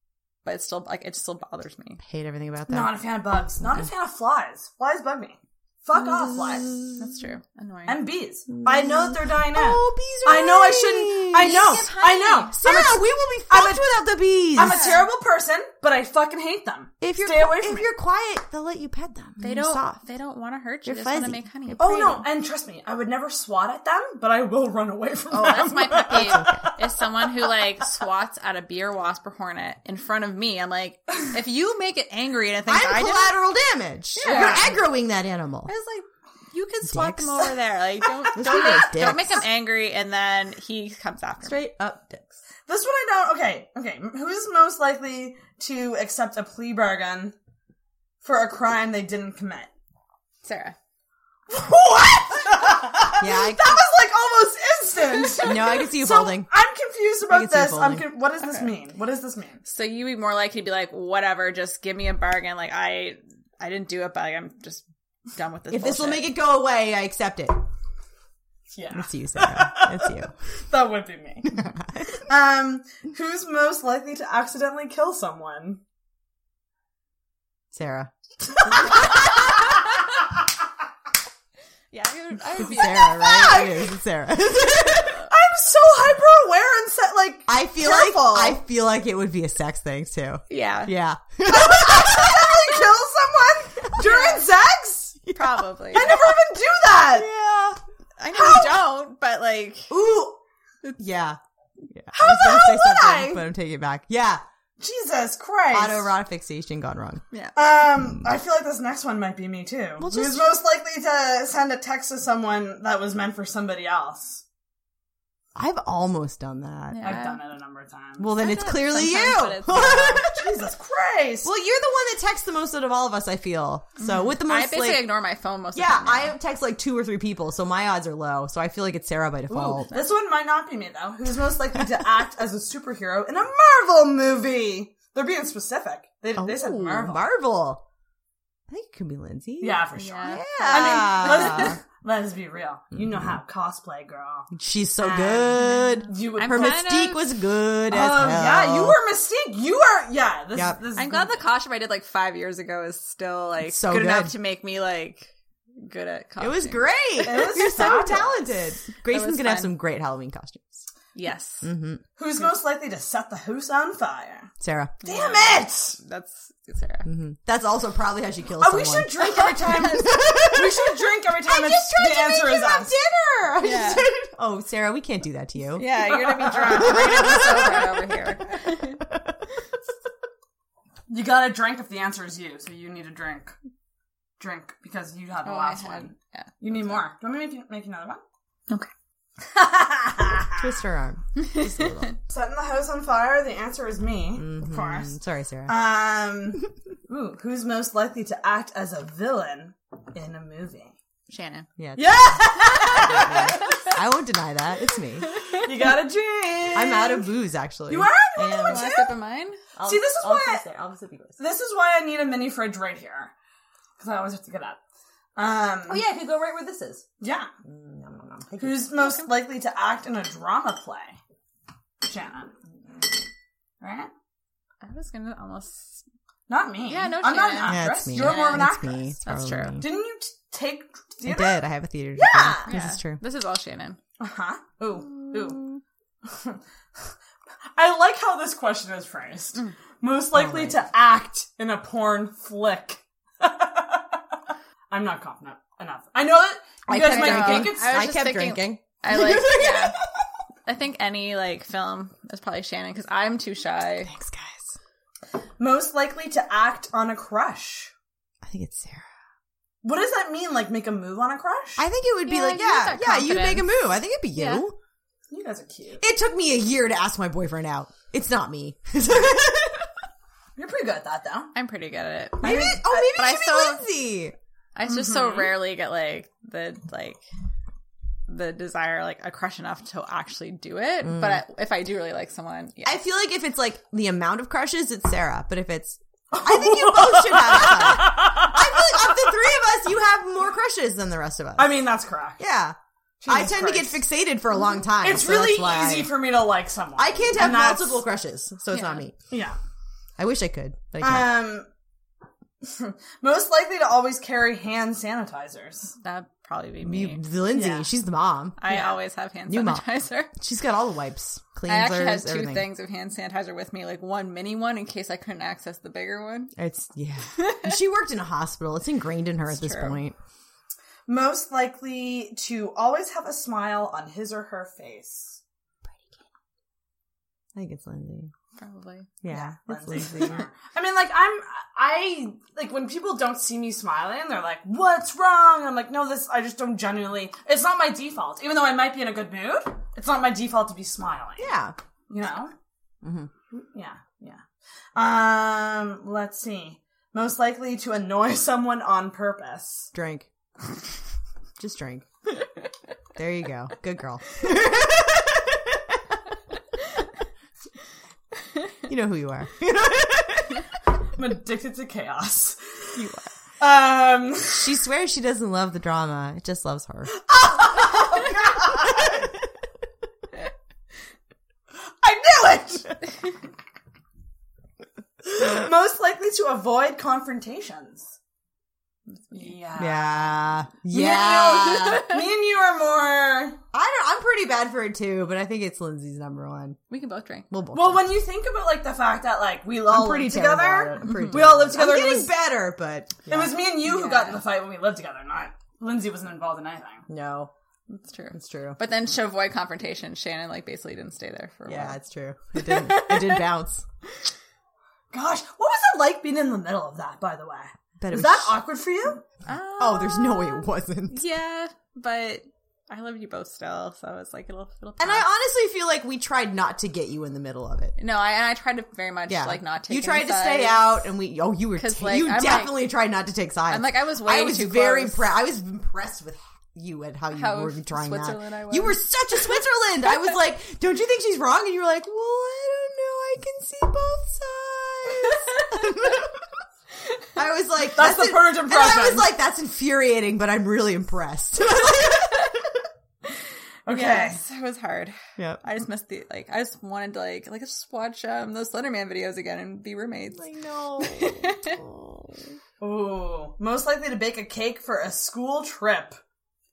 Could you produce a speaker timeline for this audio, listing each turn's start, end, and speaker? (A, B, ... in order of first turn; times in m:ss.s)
0:00.4-0:02.0 A
0:02.0-0:03.0 B
0:02.7-0:06.7 C
0:05.9-0:07.1 B
0:07.0-0:08.0 A
0:07.9-0:13.8 C
0:08.6-0:11.9 B
0:11.4-0:12.5 A
0:12.5-0:14.9 B
0:14.5-0:17.9 C
0:14.6-0:15.0 A
0:17.0-0:20.0 B
0:19.4-0:22.2 A
0:20.8-0:22.2 B
0:21.8-0:26.8 C
0:25.3-0:33.3 A
0:26.1-0:26.6 B
0:32.6-0:35.7 B
0:34.2-0:34.8 A
0:34.2-0:34.7 C
0:35.6-0:41.6 A
0:36.8-0:37.5 B
0:38.3-0:39.2 C
0:38.3-0:39.4 B
0:41.4-0:42.3 B
0:42.7-0:47.3 C
0:48.2-0:49.7 C
0:50.4-0:50.8 A
0:51.5-0:59.6 C
0:53.2-0:53.8 B
0:55.4-0:56.5 B
0:57.3-0:58.1 B
0:58.4-0:58.7 A
0:59.6-1:06.3 A
1:05.7-1:07.6 B
1:08.7-1:15.8 C
1:08.9-1:10.3 B
1:11.5-1:12.1 B
1:17.7-1:18.1 B
1:18.6-1:19.5 C
1:18.8-1:19.1 B
1:21.9-1:23.6 A
1:22.6-1:25.2 B
1:23.2-1:23.9 C
1:24.8-1:25.3 A
1:24.9-1:28.6 C
1:27.5-1:32.8 B
1:30.5-1:30.9 A
1:31.4-1:35.2 C
1:34.0-1:34.4 A
1:35.2-1:36.4 B
1:35.3-1:36.1 A
1:35.9-1:37.3 C
1:37.0-1:37.8 B
1:38.2-1:39.9 A
1:38.3-1:38.7 B
1:39.9-1:40.4 B
1:41.0-1:41.4 B
1:41.9-1:44.4 B
1:42.1-1:43.4 C
1:44.8-1:46.1 C
1:45.7-1:47.2 B
1:47.5-1:54.4 C
1:50.0-1:50.5 B
1:55.5-1:57.2 B
1:56.9-1:57.4 A
1:57.0-1:58.3 C
1:58.2-2:00.5 B
1:58.4-2:00.2 A
1:59.8-2:01.5 C
2:01.4-2:05.1 B
2:04.0-2:06.3 A
2:05.7-2:09.9 B
2:09.5-2:17.2 C
2:16.4-2:17.8 B
2:18.7-2:21.8 B
2:19.6-2:26.8 C
2:19.9-2:21.7 A
2:24.5-2:29.0 B
2:25.6-2:27.3 A
2:27.9-2:31.4 C
2:30.5-2:30.8 B
2:30.9-2:37.6 A
2:33.6-2:34.3 B
2:36.4-2:40.8 B
2:37.2-2:38.5 C
2:39.1-2:39.8 A
2:41.1-2:41.7 A
2:41.6-2:42.0 B
2:42.2-2:44.5 C
2:44.6-2:45.0 B
2:45.0-2:47.1 A
2:45.0-2:46.0 C
2:47.0-2:57.9 B
2:48.6-2:52.9 C
2:53.6-2:54.1 A
2:55.8-2:59.0 A
2:56.5-2:57.5 C
2:59.0-2:59.3 B
3:01.1-3:03.5 C
3:04.4-3:08.2 C
3:05.4-3:07.0 A
3:09.4-3:10.7 C
3:10.6-3:12.2 B
3:11.4-3:12.1 A
3:12.3-3:21.0 C
3:14.3-3:15.8 B
3:21.3-3:21.7 A
3:21.8-3:25.3 B
3:22.0-3:23.8 C
3:23.6-3:23.9 A
3:25.3-3:25.6 A
3:25.5-3:27.3 C
3:26.7-3:28.9 B
3:27.9-3:29.1 C
3:28.7-3:29.6 A
3:29.7-3:31.4 B
3:29.8-3:30.6 C
3:31.4-3:33.3 C
3:34.0-3:34.8 C
3:35.4-3:37.5 C
3:35.9-3:37.0 B
3:37.6-3:39.0 B
3:38.6-3:41.2 C
3:39.0-3:39.3 A
3:42.0-3:42.5 C
3:43.8-3:44.1 C
3:44.8-3:46.0 A
3:46.5-3:49.1 C
3:46.8-3:48.7 A
3:47.6-3:49.9 B
3:49.2-3:49.8 A
3:49.8-3:52.7 C
3:51.2-3:53.2 B
3:52.6-3:54.0 A
3:54.2-3:55.6 C
3:55.2-3:55.8 B
3:56.2-3:56.6 C
3:57.8-4:04.0 C
4:00.3-4:00.8 B
4:04.9-4:07.9 C
4:06.9-4:10.0 B
4:06.9-4:10.0 A
4:10.6-4:14.1 A
4:14.0-4:14.8 B
4:15.6-4:17.9 C
4:18.4-4:19.1 B
4:19.8-4:21.8 C
4:21.8-4:24.8 B
4:22.2-4:23.7 A
4:24.3-4:24.6 A
4:25.3-4:26.0 C
4:26.0-4:29.9 B
4:30.6-4:31.5 C
4:31.5-4:33.8 A
4:32.4-4:34.4 B
4:34.7-4:37.2 A
4:34.9-4:35.5 C
4:38.3-4:43.0 A
4:41.0-4:41.4 B
4:42.8-4:51.8 B
4:46.3-4:48.9 C
4:51.6-4:52.4 C
4:52.4-4:56.2 B
4:53.2-4:54.0 C
4:55.0-4:58.0 C
4:57.0-4:59.2 B
4:58.7-4:59.0 A
4:59.3-4:59.6 C
5:00.2-5:01.5 B
5:01.0-5:01.7 C
5:02.6-5:05.9 C
5:06.0-5:07.2 A
5:06.8-5:08.6 B
5:07.5-5:07.9 C
5:08.6-5:10.3 A
5:09.5-5:12.7 B
5:11.7-5:16.5 A
5:16.6-5:20.2 B
5:17.4-5:17.7 A
5:19.5-5:20.0 A
5:21.1-5:25.4 C
5:27.5-5:28.3 B
5:28.6-5:29.1 A
5:29.2-5:30.4 B
5:29.3-5:41.5 C
5:41.4-5:41.8 B
5:42.1-5:42.5 C
5:43.0-5:43.3 B
5:43.5-5:44.4 C
5:45.0-5:49.9 C
5:49.9-5:50.3 B
5:51.6-5:52.1 B
5:53.2-5:56.0 B
5:58.9-6:00.7 B
6:01.2-6:03.0 C
6:03.0-6:03.3 B
6:03.6-6:04.7 C
6:04.5-6:07.2 B
6:07.2-6:09.2 C
6:08.7-6:09.2 B
6:12.0-6:13.0 C
6:15.2-6:18.1 C
6:19.3-6:23.6 C
6:19.7-6:22.1 B
6:23.7-6:26.8 B
6:26.9-6:27.5 A
6:27.5-6:28.0 B
6:27.7-6:32.3 C
6:29.9-6:33.6 B
6:31.0-6:31.4 A
6:33.3-6:37.0 C
6:33.8-6:34.4 A
6:37.1-6:37.5 B
6:37.9-6:42.0 A
6:38.3-6:38.8 B
6:41.7-6:43.8 B
6:42.6-6:43.4 A
6:45.1-6:49.2 C
6:48.0-6:48.6 B
6:49.4-6:55.3 A
6:49.8-6:51.2 B
6:55.0-6:57.9 B
6:58.0-7:00.9 A
6:59.3-7:16.4 B
7:01.8-7:02.8 A
7:03.7-7:05.2 A
7:07.3-7:09.5 A
7:10.1-7:10.3 A
7:15.5-7:15.8 A
7:17.4-7:22.6 B
7:18.0-7:19.3 C
7:23.8-7:24.4 C
7:23.9-7:30.4 A
7:25.4-7:25.6 B
7:30.3-7:32.5 B
7:31.0-7:31.8 A
7:32.8-7:36.2 C